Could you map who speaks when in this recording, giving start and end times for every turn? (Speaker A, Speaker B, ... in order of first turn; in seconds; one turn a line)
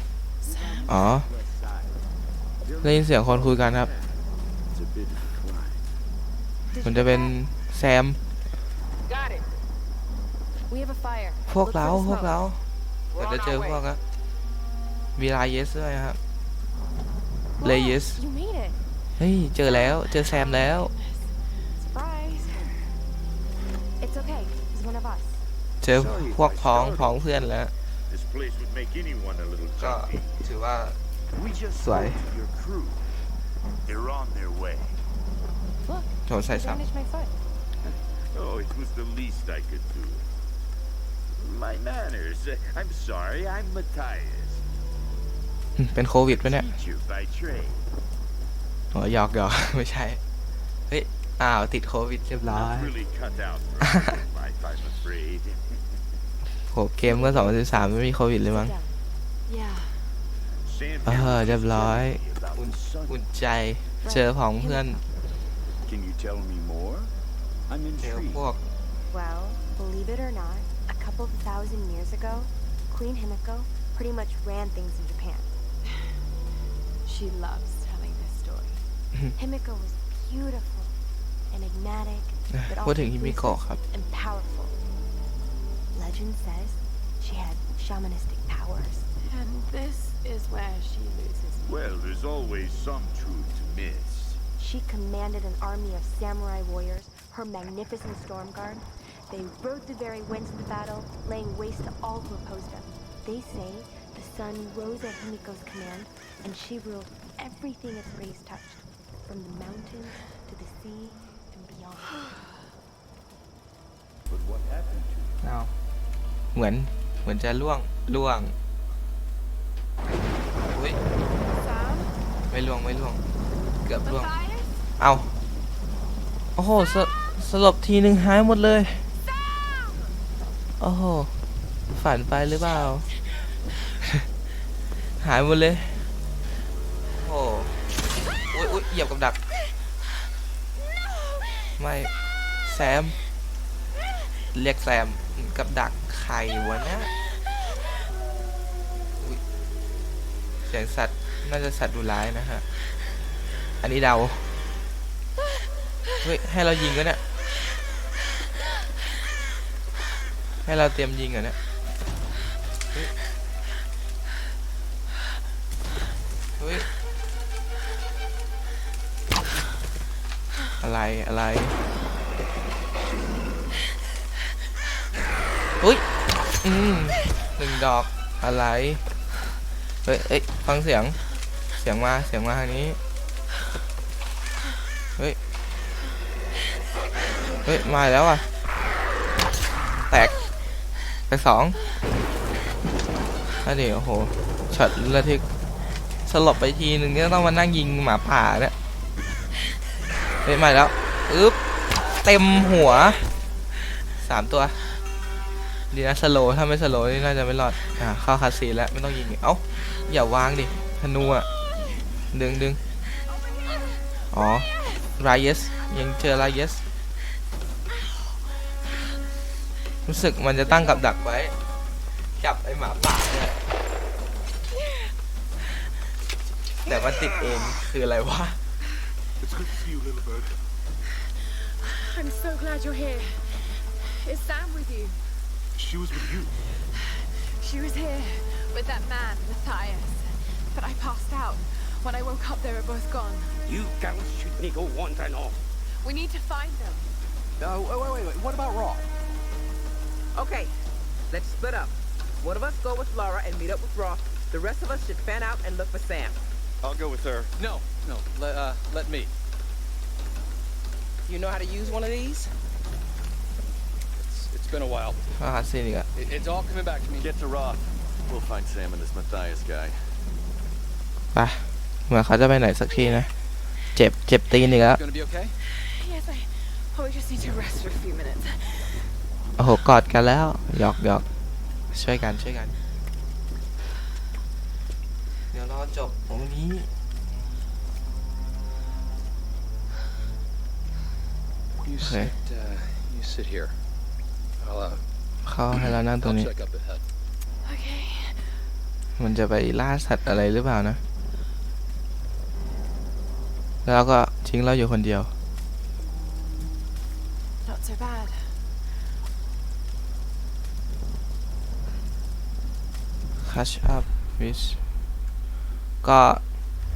Speaker A: 0.4-1.0
Speaker B: 0.4-2.0
Speaker C: 0.9-1.3
Speaker B: 2.7-4.1
Speaker C: 2.8-3.9
Speaker B: 4.7-5.8
Speaker D: 6.7-7.4
Speaker C: 6.8-8.2
Speaker D: 10.7-12.3
Speaker C: 11.5-12.6
Speaker C: 13.2-14.0
Speaker C: 15.2-16.2
Speaker D: 17.6-18.8
Speaker C: 17.6-18.2
Speaker C: 19.2-20.9
Speaker A: 19.6-21.4
Speaker D: 21.8-22.6
Speaker A: 22.3-22.8
Speaker D: 24.0-25.4
Speaker C: 25.8-27.7
Speaker B: 25.9-27.2
Speaker B: 28.1-30.2
Speaker C: 29.8-31.0
Speaker B: 31.3-33.0
Speaker C: 31.8-32.2
Speaker B: 33.9-35.0
Speaker D: 35.8-37.3
Speaker C: 36.3-36.8
Speaker B: 38.4-40.2
Speaker B: 41.4-44.6
Speaker C: 45.8-46.7
Speaker B: 46.3-47.8
Speaker C: 48.9-50.2
Speaker C: 50.9-52.9
Speaker B: 52.5-55.7
Speaker C: 53.8-54.2
Speaker C: 56.7-58.7
Speaker D: 57.0-59.0
Speaker A: 59.5-60.1
Speaker B: 60.7-63.2
Speaker C: 61.0-65.0
Speaker D: 64.0-65.0
Speaker B: 65.8-67.1
Speaker B: 67.7-68.5
Speaker C: 68.0-68.6
Speaker D: 69.1-75.5
Speaker A: 77.0-78.8
Speaker D: 79.4-81.0
Speaker D: 81.5-84.8
Speaker C: 82.6-83.8
Speaker D: 85.9-89.1
Speaker A: 89.2-91.9
Speaker B: 91.7-94.4
Speaker D: 94.6-112.3
Speaker B: 114.3-115.3
Speaker C: 115.4-115.7
Speaker C: 116.5-118.5
Speaker C: 120.7-121.0
Speaker A: 121.5-122.2
Speaker C: 122.5-123.2
Speaker C: 123.8-124.3
Speaker A: 124.0-124.8
Speaker C: 125.0-125.3
Speaker C: 126.6-129.1
Speaker C: 130.8-131.3
Speaker C: 131.9-133.1
Speaker C: 135.2-136.1
Speaker C: 137.2-137.8
Speaker C: 138.5-139.4
Speaker C: 141.8-142.1
Speaker C: 142.7-143.2
Speaker C: 144.5-147.1
Speaker C: 150.7-152.6
Speaker C: 153.8-154.5
Speaker C: 156.2-157.2
Speaker C: 160.7-161.6
Speaker C: 166.6-166.9
Speaker C: 170.8-171.8
Speaker C: 175.8-176.1
Speaker C: 176.6-179.1
Speaker C: 180.1-181.2
Speaker C: 181.8-183.0
Speaker C: 187.6-188.5
Speaker C: 190.0-190.4
Speaker C: 191.3-191.8
Speaker C: 193.6-195.5
Speaker C: 196.2-198.7
Speaker C: 200.4-201.6
Speaker C: 202.2-203.3
Speaker C: 204.2-204.8
Speaker C: 205.9-211.5
Speaker C: 212.3-212.8
Speaker C: 214.3-216.8
Speaker C: 220.1-221.6
Speaker C: 222.4-223.6
Speaker A: 224.7-225.1
Speaker C: 226.8-228.6
Speaker E: 229.4-230.6
Speaker A: 231.3-235.2
Speaker E: 235.8-236.6
Speaker A: 236.9-243.6
Speaker F: 243.7-245.6
Speaker A: 246.0-247.1
Speaker G: 247.6-249.1
Speaker H: 250.3-250.7
Speaker H: 251.3-256.4
Speaker I: 256.8-257.5
Speaker G: 257.6-259.3
Speaker H: 261.3-262.5
Speaker G: 264.1-265.3
Speaker C: 265.4-266.1
Speaker G: 266.1-267.3
Speaker I: 267.2-270.2
Speaker C: 271.3-273.3
Speaker C: 273.9-275.0
Speaker G: 274.9-275.6
Speaker A: 275.6-279.1
Speaker C: 279.6-281.2
Speaker C: 281.9-282.7
Speaker C: 285.5-286.9
Speaker G: 291.8-293.8
Speaker C: 292.0-292.3
Speaker G: 294.6-295.1
Speaker C: 295.4-296.5
Speaker G: 296.2-297.0
Speaker A: 297.6-298.6
Speaker C: 299.2-301.0
Speaker C: 303.9-305.3
Speaker A: 307.6-308.7
Speaker C: 313.4-314.8
Speaker C: 316.0-316.4